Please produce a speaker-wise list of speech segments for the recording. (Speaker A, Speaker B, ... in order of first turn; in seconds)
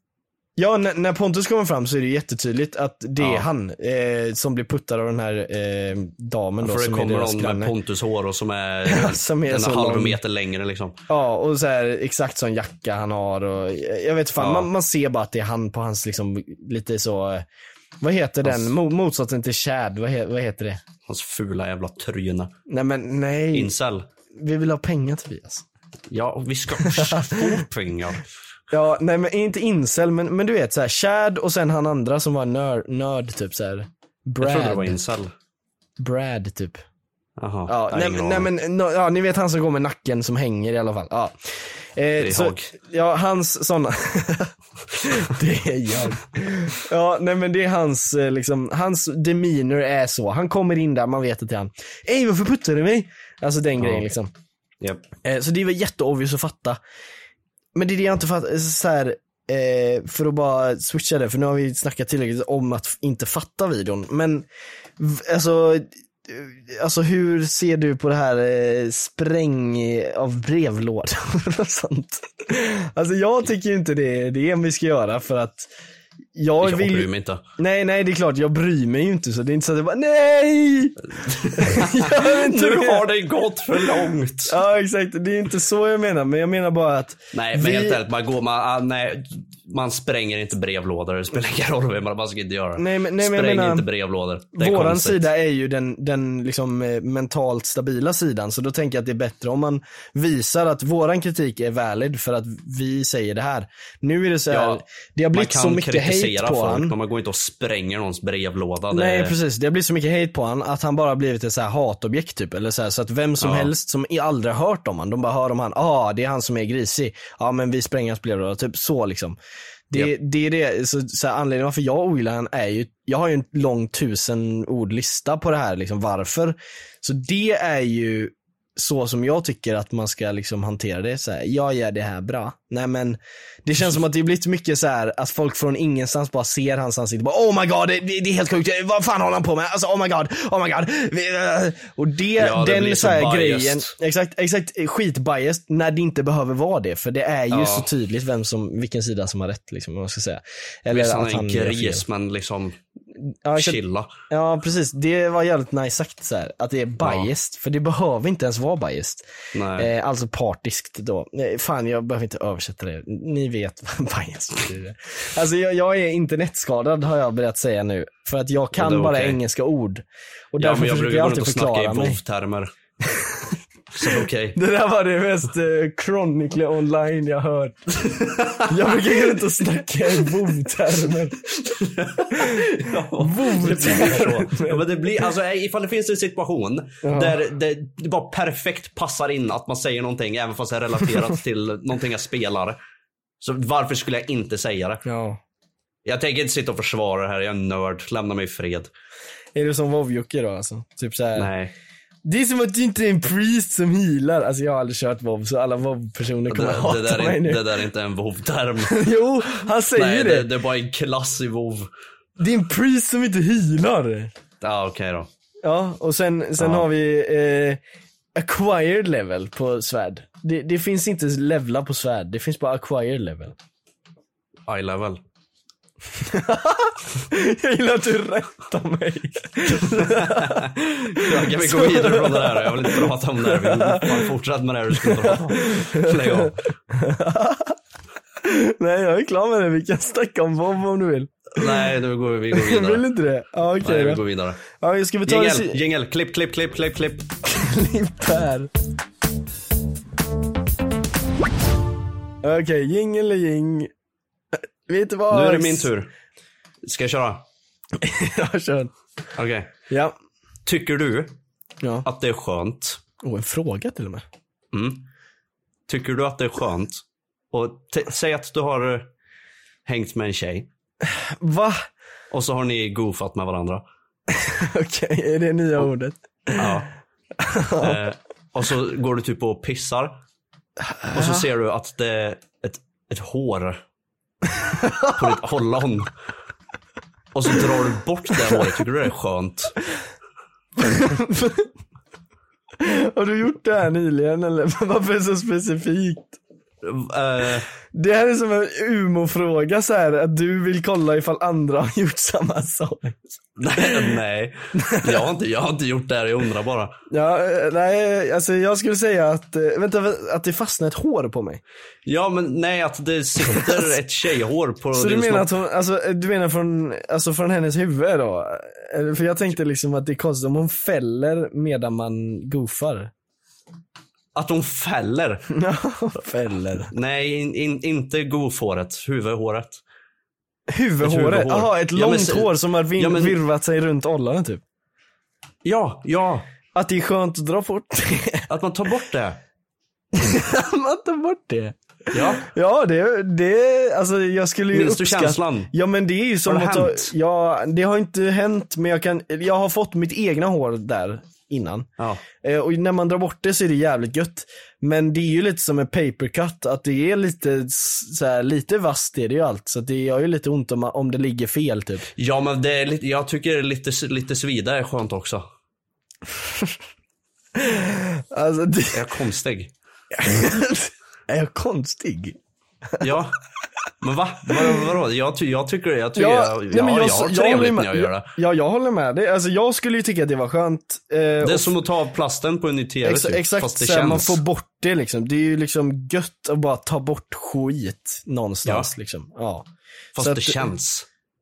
Speaker A: 0.6-7.7, 8.9-10.2, 11.1-17.4, 18.0-20.8, 22.7-23.7, 24.4-25.6, 27.0-27.2, 28.7-35.0, 36.0-36.8, 37.7-41.4, 42.0-54.3, 55.2-56.8, 57.8-64.5, 65.0-75.7, 76.3-77.1, 77.6-81.0, 81.5-83.1, 84.5-88.0, 92.8-93.8, 94.6-107.0, 108.9-119.4, 119.9-152.0, 153.4-153.8, 154.3-172.2, 173.1-173.6, 174.6-177.8, 178.7-181.4, 182.3-182.6, 183.2-185.1, 187.1-187.3, 195.1-195.4, 199.6-201.5, 202.2-207.7, 208.9-210.5, 212.4-214.3, 215.6-217.8, 218.4-223.5, 226.2-234.3, 235.0-237.8, 238.4-241.9, 242.5-245.8, 247.5-248.7, 252.4-253.9, 254.6-255.9, 258.0-258.9, 263.2-264.2, 271.4-271.8, 274.3-276.8, 277.4-278.0, 280.8-281.4, 284.8-285.1, 290.8-291.7, 292.8-296.4, 297.9-303.2, 304.8-305.2, 307.1-311.6, 313.4-313.9, 314.9-323.1, 325.5-326.9, 330.7-334.6, 336.8-338.4, 340.1-351.9, 352.4-362.1, 367.6-369.0, 370.1-372.4, 376.1-381.7, 383.1-389.7, 390.2-390.7
Speaker B: 3.2-3.5, 6.6-11.0, 14.4-14.7, 18.4-18.8, 21.1-22.5, 23.5-24.1, 26.1-28.3, 34.4-35.3, 37.4-38.5, 42.2-42.7, 53.8-54.0, 54.8-55.1, 76.6-77.4, 81.2-84.6, 87.3-95.3, 104.5-109.3, 113.4-113.7, 142.4-143.9, 147.5-147.9, 150.9-152.8, 153.6-154.1, 157.0-157.3, 159.5-159.9, 168.8-169.4, 170.6-172.7, 173.9-174.6, 178.0-179.4, 181.5-192.8, 193.4-195.0, 196.1-198.9, 201.3-201.7, 206.5-209.1, 210.0-211.9, 214.6-215.3, 216.6-216.9, 224.7-225.2, 229.9-236.6, 241.6-243.0, 243.8-244.6, 245.2-247.3, 255.3-256.1, 256.9-257.4, 259.4-259.7, 260.6-261.3, 262.0-263.0, 264.7-265.0, 265.9-269.1, 269.9-270.7, 272.3-273.8, 276.6-276.9, 277.8-280.1, 281.1-283.8, 285.1-286.1, 287.3-289.7, 296.8-297.7, 303.6-306.9, 312.1-315.5, 324.4-325.4, 326.9-329.8, 331.0-333.4, 335.6-336.5, 338.5-339.4, 342.1-342.5, 344.7-345.7, 346.5-347.1, 362.2-365.4, 368.9-369.7, 373.0-373.4, 374.0-378.3, 381.4-384.4, 388.6-388.9, 390.1-391.1